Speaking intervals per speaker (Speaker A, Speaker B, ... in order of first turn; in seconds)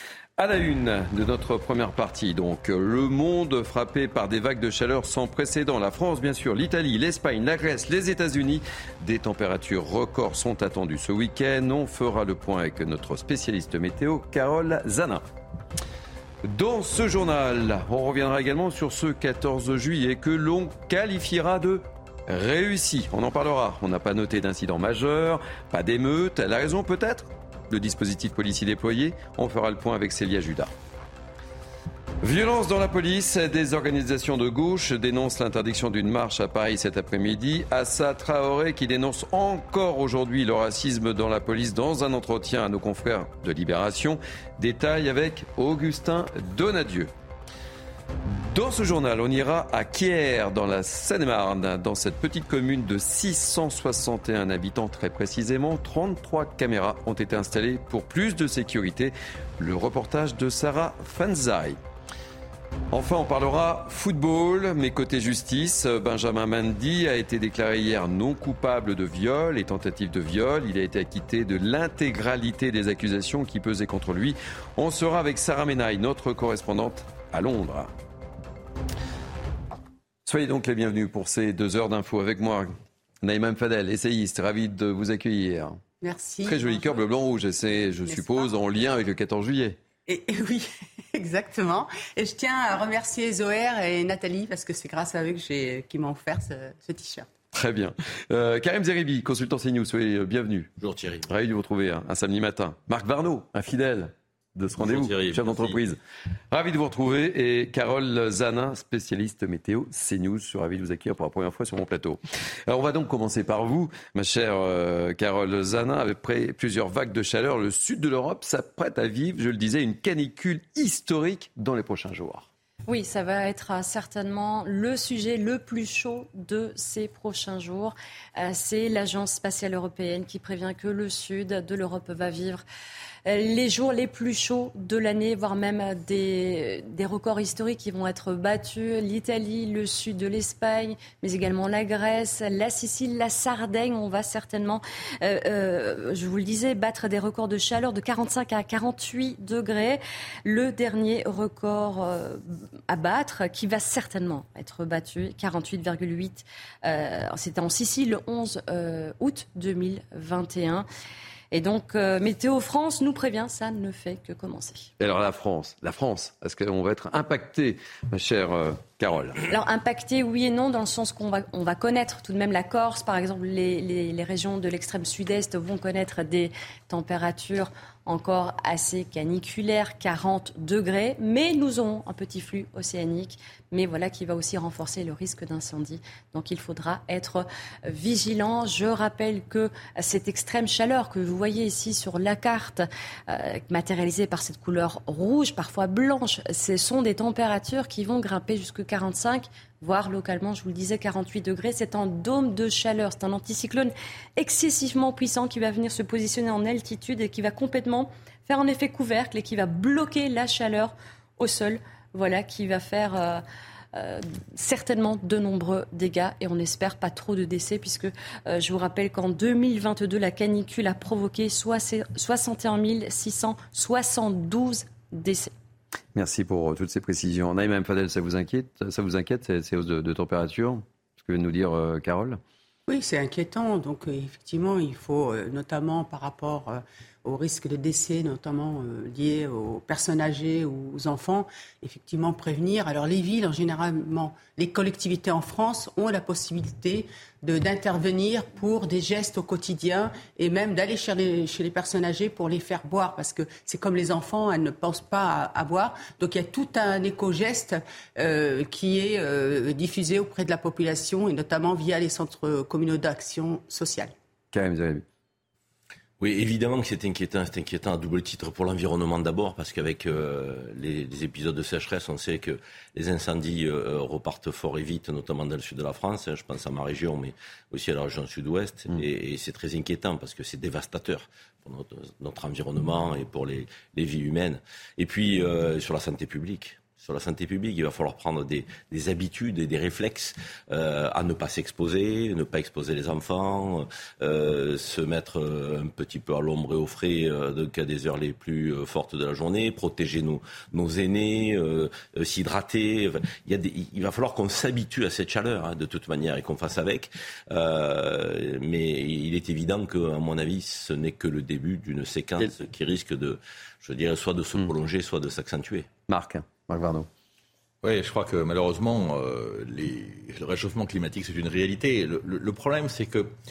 Speaker A: 0.4-15.2, 16.4-30.7, 32.2-47.1, 48.2-61.8, 62.9-77.9, 80.2-82.7, 83.2-85.8, 86.4-89.8, 97.5-100.7, 101.3-106.0, 106.5-122.5, 165.0-169.4, 226.1-232.4, 264.5-265.0, 316.1-317.1
Speaker B: 86.0-87.0, 88.1-88.5, 90.1-97.3, 232.9-264.1
Speaker C: 100.8-101.2, 104.8-105.8, 317.8-323.3
Speaker D: 122.9-132.6, 133.2-160.9, 161.5-164.9, 169.5-213.4, 213.9-225.5
Speaker E: 266.2-315.9